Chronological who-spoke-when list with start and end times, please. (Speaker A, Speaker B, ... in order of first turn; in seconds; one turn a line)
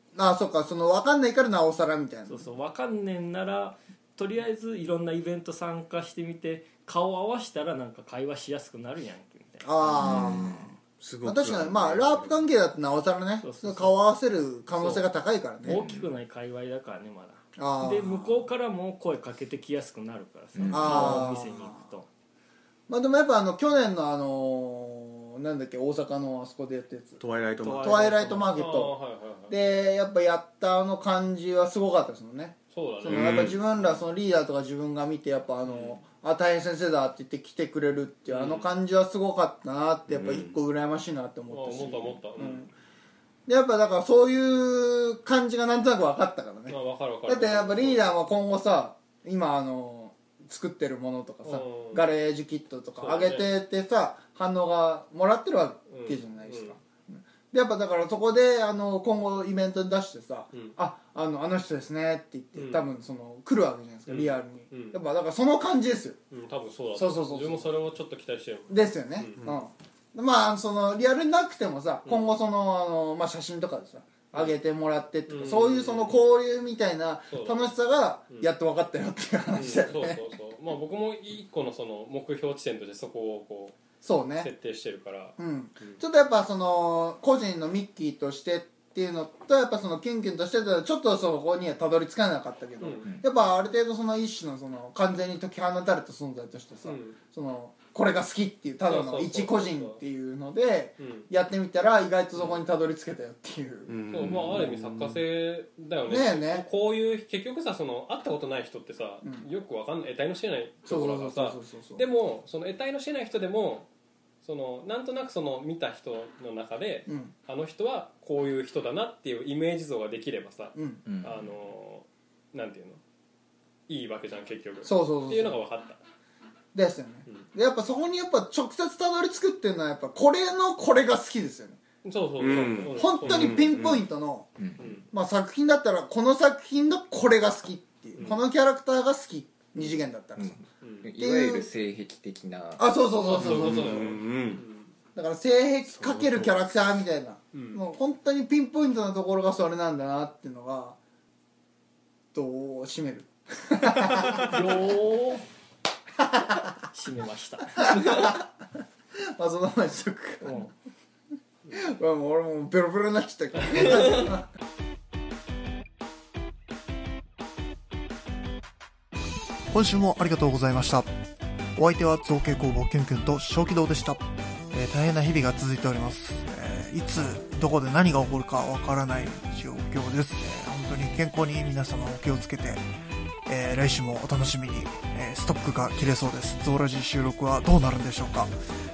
Speaker A: 0.1-2.5
Speaker B: 2.3-10.3
Speaker A: 9.6-15.8
Speaker C: 9.9-10.7
Speaker D: 11.0-12.4
Speaker B: 13.4-13.9
Speaker B: 14.7-15.0
Speaker B: 15.6-22.1
Speaker C: 15.7-16.1
Speaker A: 17.6-18.4
Speaker C: 20.5-21.1
Speaker A: 20.7-21.7
Speaker A: 22.9-27.2
Speaker D: 27.2-28.1
Speaker B: 27.6-28.6
Speaker A: 27.8-28.9
Speaker E: 28.5-29.6
Speaker A: 29.5-42.7
Speaker E: 32.7-33.6
Speaker D: 33.1-33.6
Speaker E: 35.6-36.0
Speaker E: 38.3-38.7
Speaker D: 40.1-40.5
Speaker E: 41.5-42.7
Speaker A: 43.5-66.2
Speaker E: 46.7-48.0
Speaker E: 51.4-52.0
Speaker E: 53.0-53.5
Speaker E: 55.9-56.8
Speaker E: 60.5-60.8
Speaker E: 62.5-62.9
Speaker E: 64.1-65.0
Speaker E: 66.3-69.5
Speaker A: 66.9-67.7
Speaker A: 68.7-80.2
Speaker E: 72.0-72.3
Speaker E: 75.3-76.2
Speaker E: 77.3-77.7
Speaker E: 79.5-83.7
Speaker A: 84.0-84.5
Speaker E: 84.4-86.0
Speaker A: 85.4-103.9
Speaker E: 92.8-93.1
Speaker E: 96.8-97.2
Speaker E: 98.8-100.0
Speaker E: 101.0-101.3
Speaker D: 103.9-105.2
Speaker E: 104.1-113.9
Speaker A: 106.1-106.7
Speaker A: 110.8-112.0
Speaker E: 114.4-123.0
Speaker A: 117.1-117.3
Speaker A: 120.7-121.0
Speaker C: 121.0-121.5
Speaker E: 123.9-126.0
Speaker A: 124.8-125.6
Speaker A: 126.7-131.8
Speaker E: 132.0-133.8
Speaker D: 132.4-134.0
Speaker A: 132.9-134.5
Speaker E: 134.8-135.1
Speaker A: 135.1-140.6
Speaker C: 140.4-142.8
Speaker E: 140.8-141.1
Speaker A: 141.2-141.7
Speaker A: 142.8-144.1
Speaker E: 143.2-144.9
Speaker D: 143.4-144.6
Speaker A: 145.1-151.0
Speaker D: 146.0-146.5
Speaker E: 147.5-147.8
Speaker A: 152.3-154.5
Speaker D: 154.1-154.6
Speaker B: 154.4-155.4
Speaker A: 156.2-156.6
Speaker B: 156.9-158.2
Speaker A: 157.8-158.4
Speaker A: 159.2-160.7
Speaker B: 160.4-160.7
Speaker A: 161.7-164.4
Speaker F: 169.7-171.0
Speaker A: 169.8-170.9
Speaker A: 171.8-174.0
Speaker F: 171.8-174.2
Speaker F: 174.8-182.8
Speaker A: 175.5-176.1
Speaker A: 177.5-180.9
Speaker A: 181.7-182.5
Speaker F: 183.6-188.5
Speaker A: 183.6-184.6
Speaker A: 185.4-188.1